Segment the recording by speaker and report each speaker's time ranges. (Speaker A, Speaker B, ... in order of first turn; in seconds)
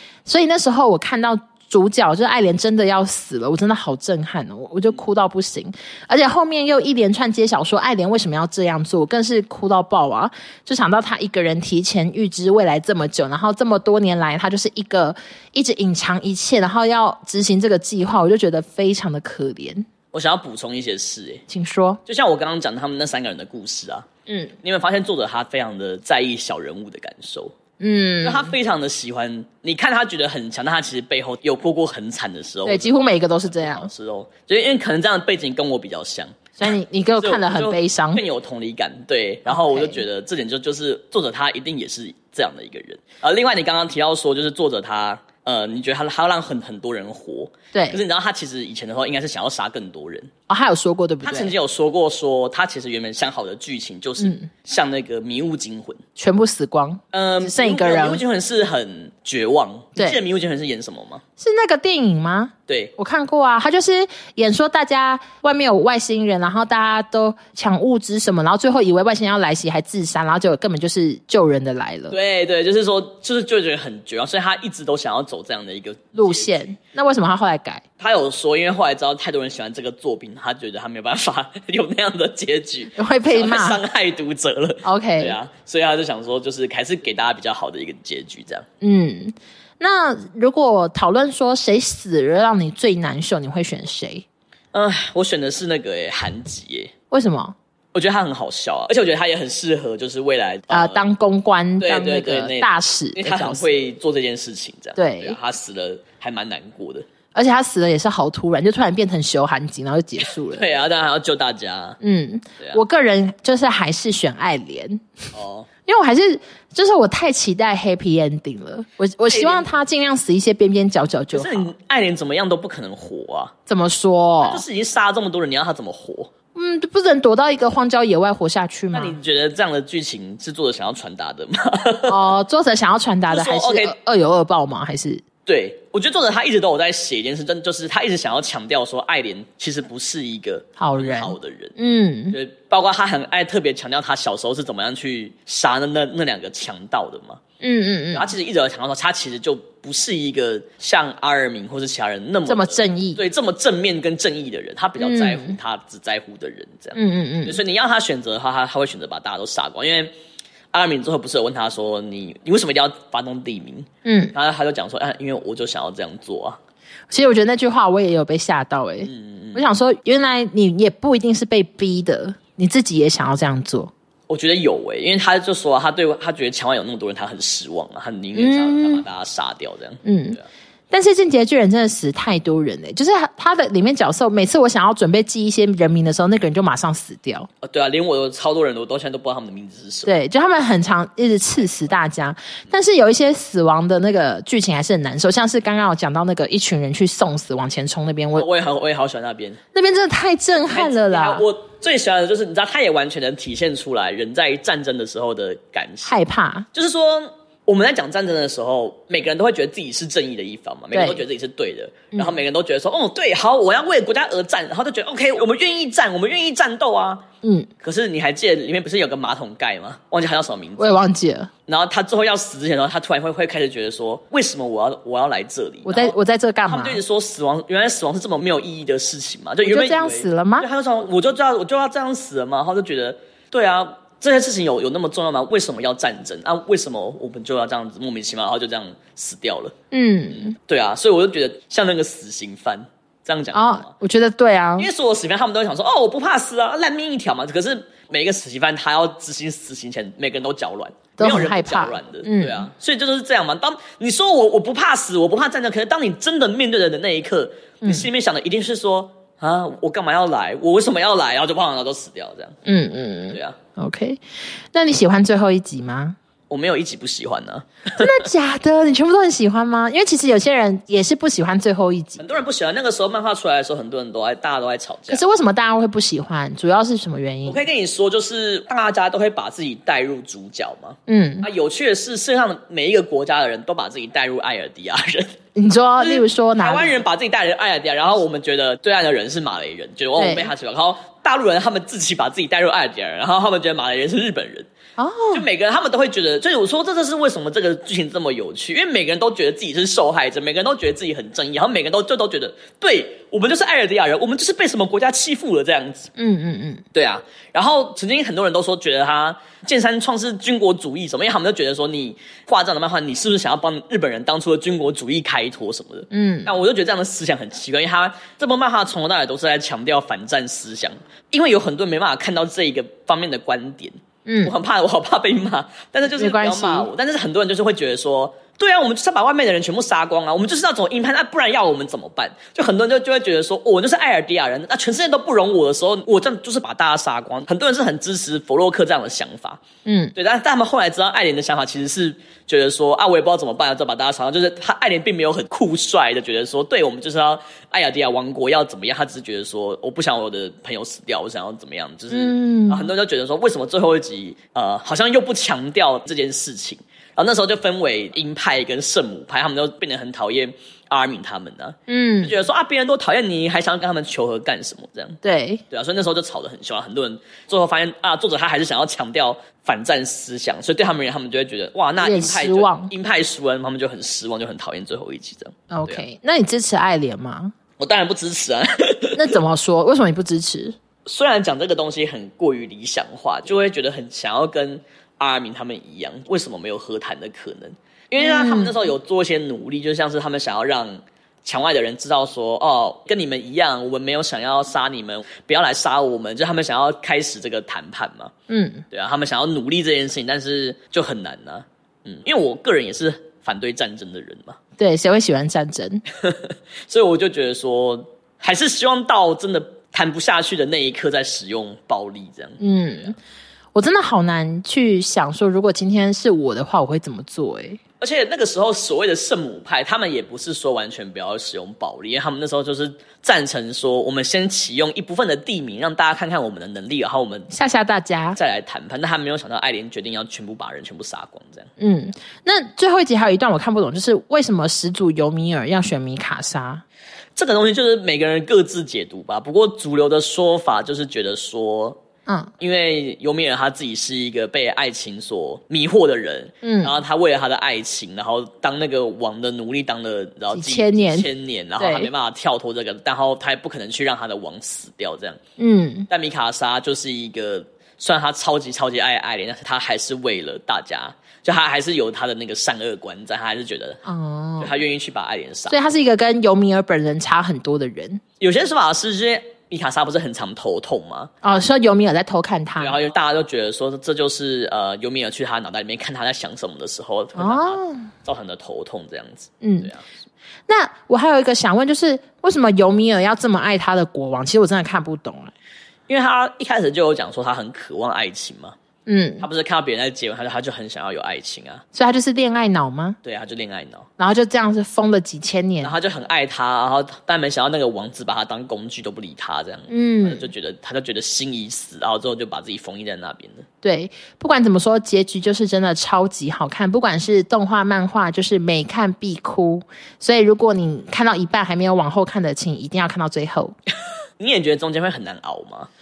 Speaker A: 0.2-19.9, 21.5-22.0, 24.3-24.5, 27.8-28.5, 32.6-33.9, 36.6-38.2, 39.5-40.0, 47.7-48.0, 50.5-51.5, 54.2-54.5, 56.2-58.2, 61.4-72.2, 76.1-77.8, 82.9-83.8, 84.8-85.4, 88.8-94.2, 97.1-97.5, 100.7-103.7, 105.0-105.4, 107.3-110.6, 112.0-115.3, 115.8-121.7, 123.7-124.6, 126.5-129.2, 132.1-135.2, 140.8-142.4, 147.6-148.3, 152.5-153.2, 155.0-155.6, 156.9-157.6, 164.0-164.3, 167.1-173.9, 178.3-179.0, 180.0-180.4, 180.9-187.5, 190.1-198.4, 199.7-201.4, 206.0-206.7, 210.9-211.2, 212.1-212.4, 217.4-217.7, 220.8-221.5, 225.8-227.0, 229.6-230.7, 239.9-240.6, 243.5-244.9, 251.2-252.7, 257.8-258.1, 262.6-264.2, 264.7-266.2, 267.9-272.3, 275.1-277.6, 281.1-281.5, 285.5-287.0, 290.1-290.5, 295.0-295.4, 306.2-306.8, 316.1-316.5, 324.2-324.5, 326.1-326.9, 339.8-340.1, 352.1-352.9, 361.9-362.4, 365.2-365.6, 372.0-372.9, 375.7-377.5, 379.1-380.7, 388.2-388.8, 398.5-398.9, 404.8-406.0, 412.6-413.2, 413.7-417.8, 427.5-428.4, 431.8-436.8, 442.3-442.5, 446.6-447.0, 450.5-452.1, 455.6-456.1, 464.0-464.7, 465.7-468.2, 471.4-473.0, 477.4-478.1, 479.6-479.9, 480.7-485.5, 489.1-489.4, 491.9-493.2, 494.2-495.9, 499.9-500.5, 503.8-513.7
Speaker B: 20.1-21.4, 22.1-24.1, 24.6-27.5, 28.2-36.5, 37.2-50.3, 51.2-56.0, 57.1-61.2, 62.7-62.9, 72.1-76.6, 78.0-88.7, 94.7-96.9, 97.9-101.0, 101.8-107.1, 110.4-112.0, 115.3-115.7, 119.3-119.7, 121.3-123.5, 124.4-126.3, 128.9-132.3, 133.3-133.9, 135.4-141.8, 142.3-147.4, 148.1-160.1, 160.7-166.6, 169.0-169.6, 174.3-180.4, 187.6-190.1, 198.3-199.6, 200.6-206.2, 206.7-217.2, 217.8-221.0, 221.7-226.1, 226.7-239.7, 240.4-243.9, 244.8-262.6, 263.3-263.6, 266.5-268.2, 272.2-275.2, 277.4-285.3, 286.0-294.7, 295.3-306.1, 306.9-339.6, 340.1-376.0, 377.8-379.4, 381.0-398.3, 398.9-404.6, 406.1-413.1, 418.0-427.5, 428.4-431.7, 437.4-442.0, 442.6-455.4, 456.1-464.0, 464.6-465.8, 468.4-471.3, 472.8-480.1, 486.1-488.8, 489.4-491.8, 493.2-494.1, 495.8-503.6, 514.4-515.9